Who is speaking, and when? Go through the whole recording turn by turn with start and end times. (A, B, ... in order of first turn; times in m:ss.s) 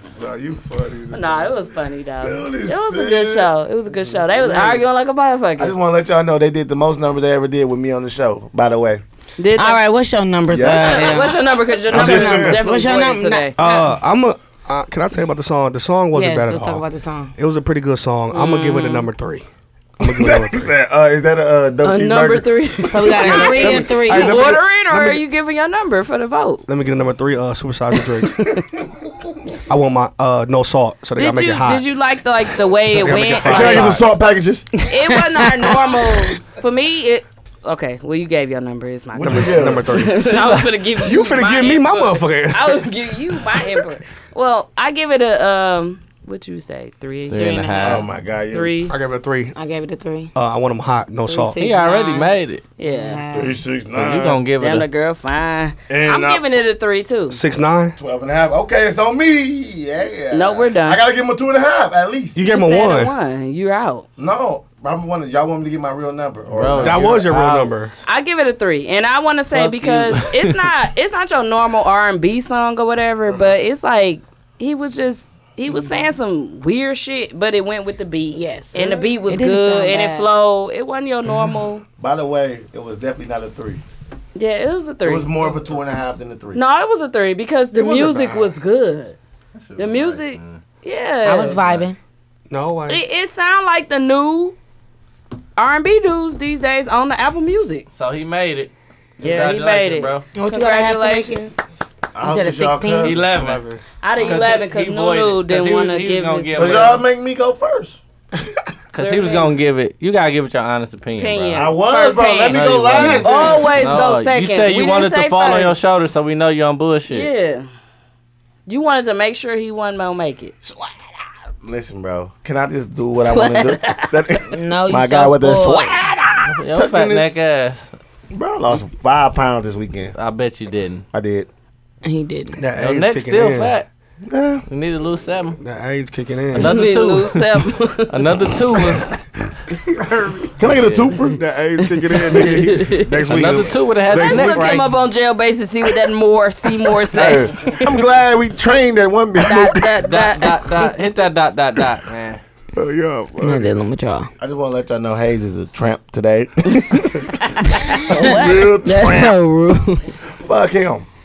0:00.2-0:01.5 A
0:01.1-0:05.8 B
0:02.2-0:03.5 C
0:04.1-0:04.8 A
0:05.6-0:09.0 C
0:09.4-0:09.8 B
0:09.6-0:14.0 D
0:10.5-0:11.3 C
0:10.6-0:13.6 B
0:11.9-0:12.6 C
0:12.0-0:12.3 A
0:13.6-0:16.8 A
0:16.1-0:17.3 D
0:17.4-0:19.5 A
0:18.3-0:19.1 B
0:20.0-0:20.7 A
0:20.0-0:24.6 C
0:21.8-0:26.6 B
0:22.9-0:24.4 D
0:23.6-0:25.2 A
0:26.7-0:28.6 A
0:28.2-0:28.7 B
0:29.7-0:31.9 A
0:31.2-0:34.0 B
0:32.9-0:34.0 A
0:33.0-0:34.7 C
0:34.8-0:49.0 B
0:35.0-0:35.7 D
0:39.2-0:40.0 C
0:39.2-0:43.8 A
0:47.3-0:48.0 E
0:47.8-0:48.8 C
0:48.9-0:49.6 A
0:49.6-0:50.3 D
0:50.4-0:51.6 A
0:51.3-0:53.6 D
0:51.6-0:52.6 E
0:52.8-0:53.3 B
0:53.3-0:54.4 C
0:53.9-0:54.9 E
0:54.6-0:57.4 B
0:55.9-0:56.5 C
0:57.3-0:58.0 A
0:58.0-1:02.4 C
1:00.3-1:01.0 B
1:02.4-1:03.1 A
1:02.4-1:04.1 B
1:04.2-1:07.4 C
1:06.5-1:07.7 E
1:06.8-1:07.9 A
1:08.1-1:21.8 B
1:09.5-1:10.7 E
1:13.3-1:13.5 C
1:18.3-1:20.3 D
1:22.0-1:23.8 C
1:24.4-1:25.6 B
1:25.0-1:26.6 C
1:26.5-1:29.2 B
1:27.8-1:28.5 A
1:29.5-1:30.6 E
1:29.8-1:31.6 B
1:31.2-1:32.0 D
1:31.5-1:31.9 E
1:32.5-1:33.0 A
1:32.9-1:34.6 B
1:35.6-1:37.9 B
1:37.9-1:40.3 E
1:39.2-1:41.6 B
1:40.3-1:41.4 D
1:42.1-1:43.3 C
1:42.2-1:43.2 D
1:43.0-1:43.6 E
1:43.2-1:43.8 A
1:44.0-1:47.0 B
1:44.2-1:47.0 E
1:46.6-1:48.0 C
1:48.9-1:51.7 E
1:49.0-1:49.5 B
1:51.2-1:56.0 B
1:51.6-1:53.8 C
1:52.5-1:57.3 E
1:57.1-1:57.7 B
1:58.7-2:00.5 B
2:00.6-2:01.0 C
2:01.6-2:07.3 C
2:03.2-2:04.2 B
2:04.5-2:06.0 D
2:06.6-2:07.9 E
2:08.3-2:10.2 C
2:10.2-2:11.0 E
2:11.1-2:11.5 C
2:12.0-2:12.6 D
2:12.6-2:13.8 A
2:12.8-2:13.9 E
2:14.3-2:14.6 C
2:14.7-2:15.6 E
2:15.6-2:16.9 A
2:16.5-2:19.1 E
2:16.6-2:18.2 B
2:19.7-2:20.5 A
2:20.6-2:21.4 C
2:20.7-2:21.2 E
2:21.3-2:24.9 A
2:22.3-2:23.2 B
2:23.2-2:24.9 E
2:24.1-2:27.8 B
2:27.1-2:29.9 C
2:29.4-2:31.0 B
2:30.0-2:32.4 E
2:32.8-2:33.7 A
2:33.4-2:34.3 D
2:34.4-2:39.4 C
2:37.4-2:38.8 B
2:38.1-2:40.2 D
2:40.4-2:41.1 C